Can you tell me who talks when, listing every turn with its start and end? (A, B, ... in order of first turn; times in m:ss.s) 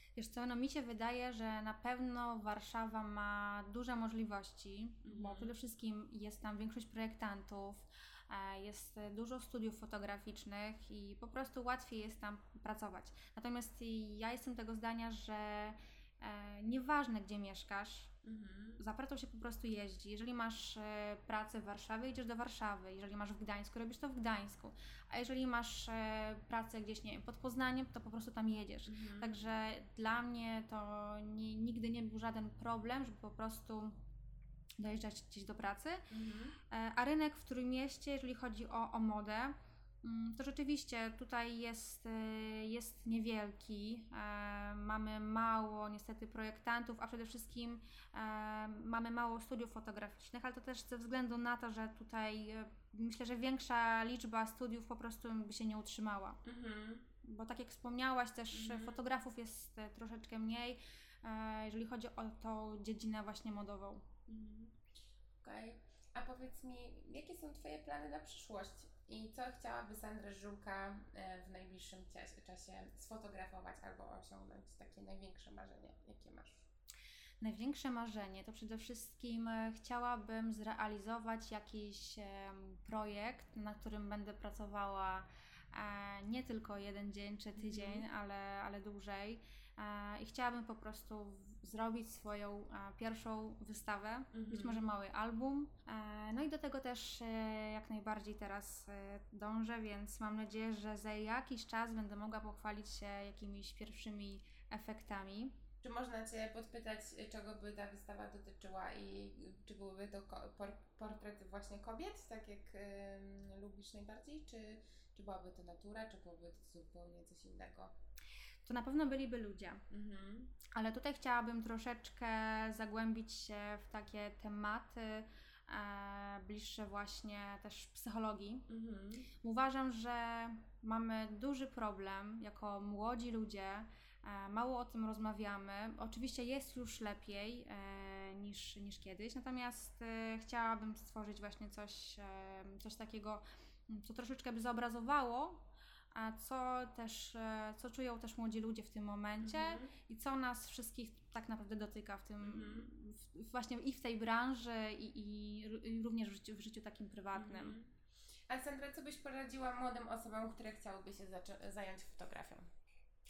0:00.2-0:18.2 A
0:05.0-0:05.5 B
0:18.2-0:18.8 B
0:18.8-0:34.1 A
0:28.9-0:29.3 B
0:34.8-0:36.0 A
0:36.1-0:36.6 B
0:36.7-0:56.4 A
0:56.4-0:57.1 B
0:57.2-1:04.1 A
0:58.5-0:59.0 B
1:04.3-1:04.8 B
1:05.4-1:16.7 B
1:17.4-1:45.6 A
1:27.6-1:28.0 B
1:34.3-1:34.8 B
1:45.8-1:57.9 B
1:58.7-1:59.8 A
1:59.9-2:00.6 B
2:00.7-2:08.7 A
2:08.7-2:09.3 B
2:09.4-2:37.8 A
2:29.4-2:29.9 B
2:32.4-2:32.9 B
2:37.3-2:37.9 B
2:38.5-2:42.7 B